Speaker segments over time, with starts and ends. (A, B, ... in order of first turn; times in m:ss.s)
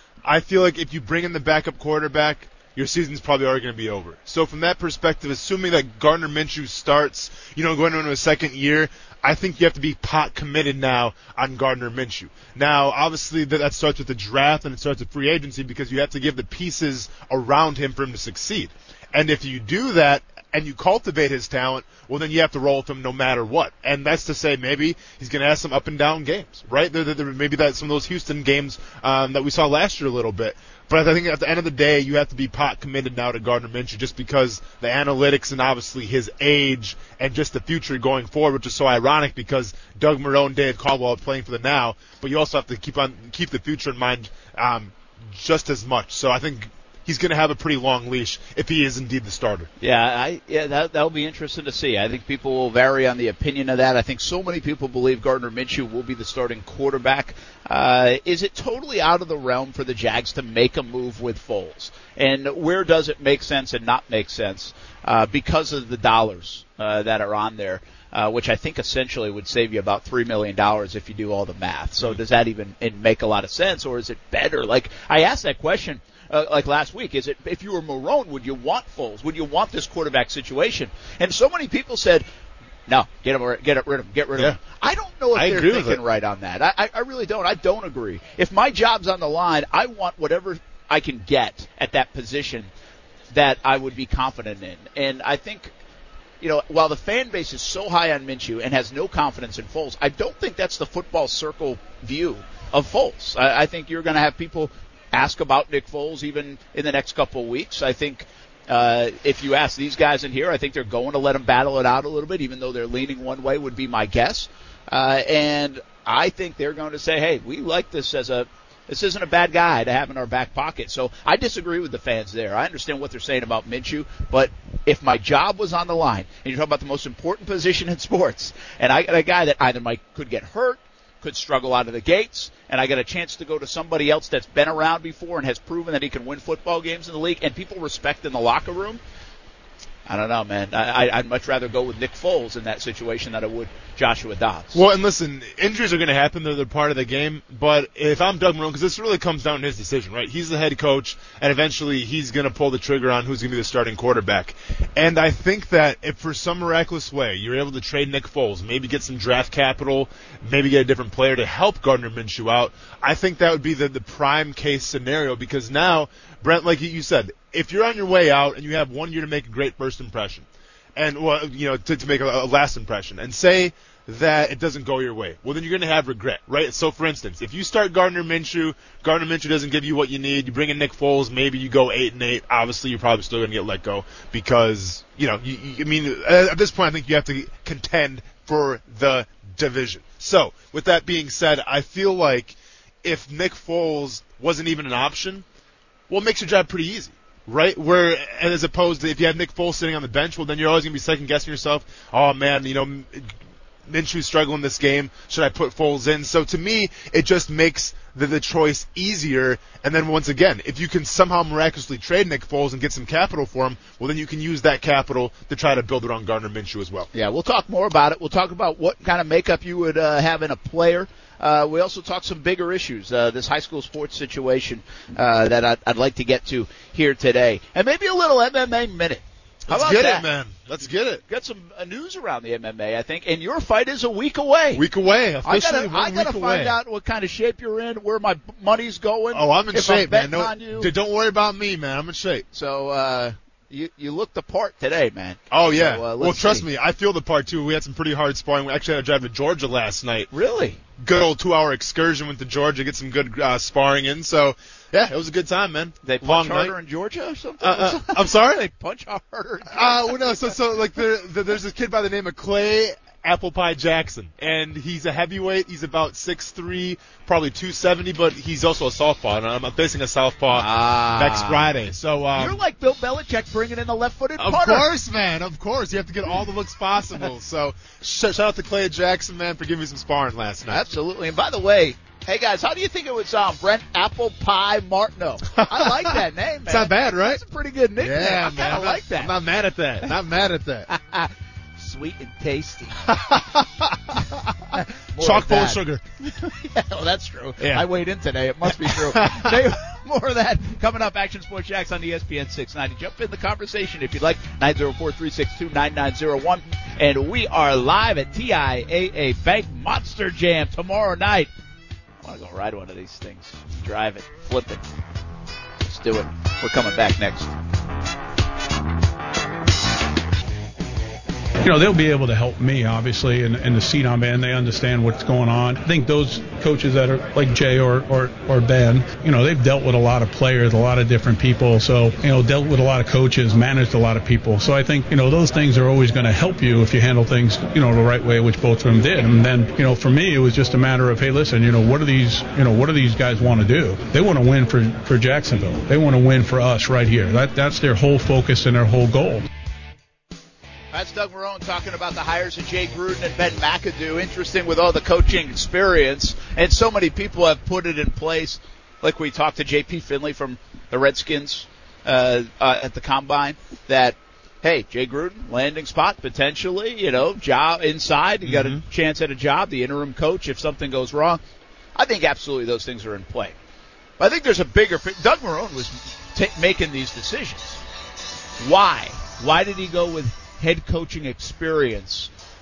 0:00.2-0:49.7 A
0:49.8-1:22.2 B
1:22.9-1:32.7 B
1:25.3-1:26.0 A
1:33.3-1:35.7 B
1:36.4-2:19.0 B
2:20.1-2:24.8 B
2:24.7-3:15.4 A
3:16.1-3:23.3 A
3:23.9-3:37.1 A
3:37.1-3:50.3 B
3:49.7-3:51.2 A
3:51.3-3:54.8 B
3:54.7-3:56.8 A
3:55.4-4:00.9 B
3:59.3-4:02.4 A
4:02.5-4:06.6 B
4:05.5-4:10.3 A
4:10.3-4:10.8 B
4:11.0-4:16.7 A
4:16.0-4:20.6 B
4:17.6-4:18.6 A
4:19.7-4:32.6 A
4:30.5-4:31.7 B
4:32.4-4:34.9 B
4:34.4-4:40.9 A
4:40.7-4:49.3 B
4:45.5-4:47.4 A
4:48.0-4:50.9 A
4:50.9-4:53.1 B
4:53.0-4:54.5 A
4:54.7-5:11.5 B
4:55.2-4:56.0 A
4:57.6-4:57.9 A
4:58.6-4:59.7 A
5:12.2-5:14.8 B
5:15.8-5:17.5 B
5:21.6-5:49.5 C
5:50.9-6:11.4 B
6:08.4-6:08.8 A
6:12.0-6:13.6 B
6:14.2-6:17.8 B
6:18.6-6:22.3 B